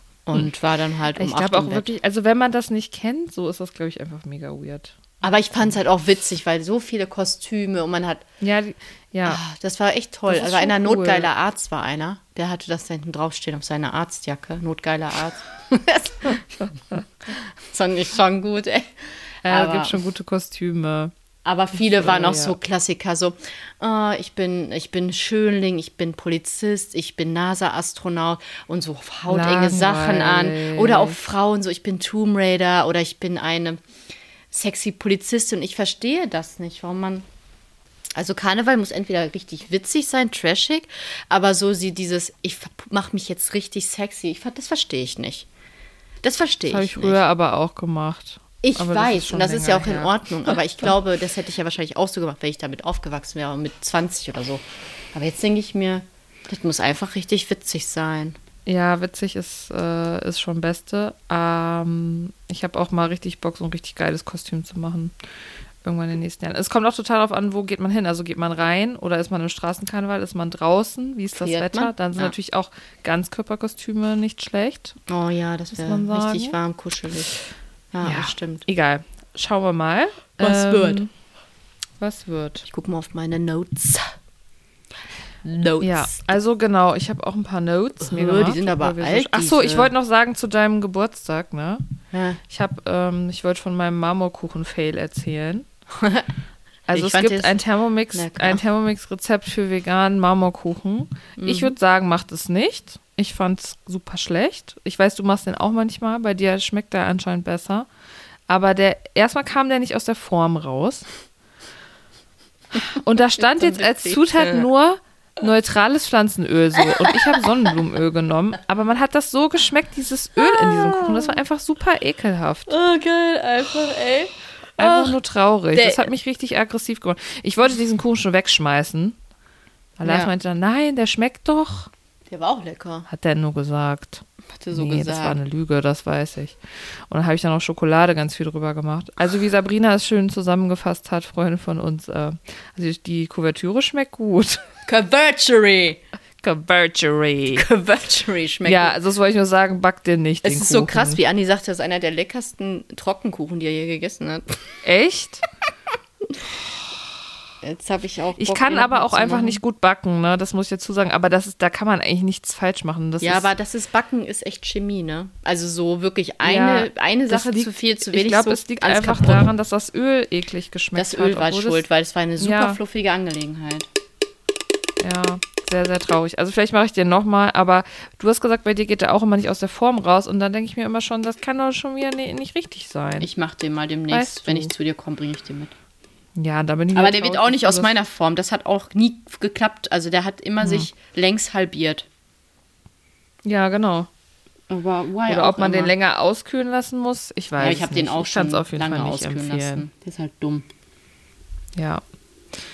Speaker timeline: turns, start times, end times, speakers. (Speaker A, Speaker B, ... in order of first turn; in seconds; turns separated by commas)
Speaker A: 0.2-1.9, Speaker B: 1.1-5.0, Speaker A: 5.2-8.2, Speaker B: 8.4-9.4, Speaker A: 9.2-16.4, Speaker B: 10.3-11.3, Speaker A: 17.3-18.9, Speaker B: 19.4-21.1, Speaker A: 19.4-20.0, Speaker A: 21.4-33.8, Speaker B: 21.7-22.6, Speaker B: 29.3-31.2, Speaker A: 34.5-37.2, Speaker A: 38.1-45.5, Speaker A: 46.2-47.2, Speaker B: 46.7-50.9, Speaker A: 48.6-54.6, Speaker A: 55.1-58.4, Speaker B: 58.6-65.1, Speaker B: 65.8-75.0, Speaker A: 71.3-72.3, Speaker A: 75.1-77.3, Speaker B: 75.7-76.5, Speaker A: 77.9-78.6, Speaker B: 78.0-81.1, Speaker A: 80.4-81.0, Speaker B: 82.0-82.7, Speaker A: 82.7-84.1, Speaker A: 85.4-86.3, Speaker B: 85.8-91.8, Speaker A: 88.0-89.9, Speaker A: 92.1-92.4, Speaker B: 92.5-95.7, Speaker A: 96.0-96.3, Speaker B: 96.9-107.9, Speaker A: 96.9-97.6, Speaker A: 98.1-98.6, Speaker A: 101.4-101.7, Speaker B: 108.5-111.1, Speaker B: 112.7-122.7, Speaker A: 113.4-114.7, Speaker A: 116.8-117.5, Speaker A: 120.4-121.4, Speaker A: 122.7-125.2, Speaker B: 124.8-129.2, Speaker A: 125.7-126.1, Speaker B: 130.0-131.9, Speaker A: 130.0-130.3, Speaker A: 132.3-133.1, Speaker B: 133.1-136.6, Speaker A: 134.6-135.4, Speaker B: 137.1-144.6, Speaker A: 144.8-146.0, Speaker B: 146.4-147.7, Speaker A: 147.5-148.9, Speaker B: 148.6-151.2, Speaker A: 150.4-154.6, Speaker B: 154.8-155.4, Speaker A: 157.6-159.6, Speaker B: 158.4-163.5, Speaker A: 163.2-169.5, Speaker B: 166.4-171.8, Speaker A: 170.9-173.9, Speaker B: 172.4-172.8, Speaker B: 175.0-183.3, Speaker A: 183.2-185.7, Speaker B: 184.1-184.7, Speaker B: 186.3-187.9, Speaker A: 186.9-192.1, Speaker B: 190.6-190.9, Speaker B: 193.4-194.1, Speaker A: 194.7-195.9, Speaker B: 195.2-199.9, Speaker A: 197.6-200.7, Speaker B: 201.8-202.0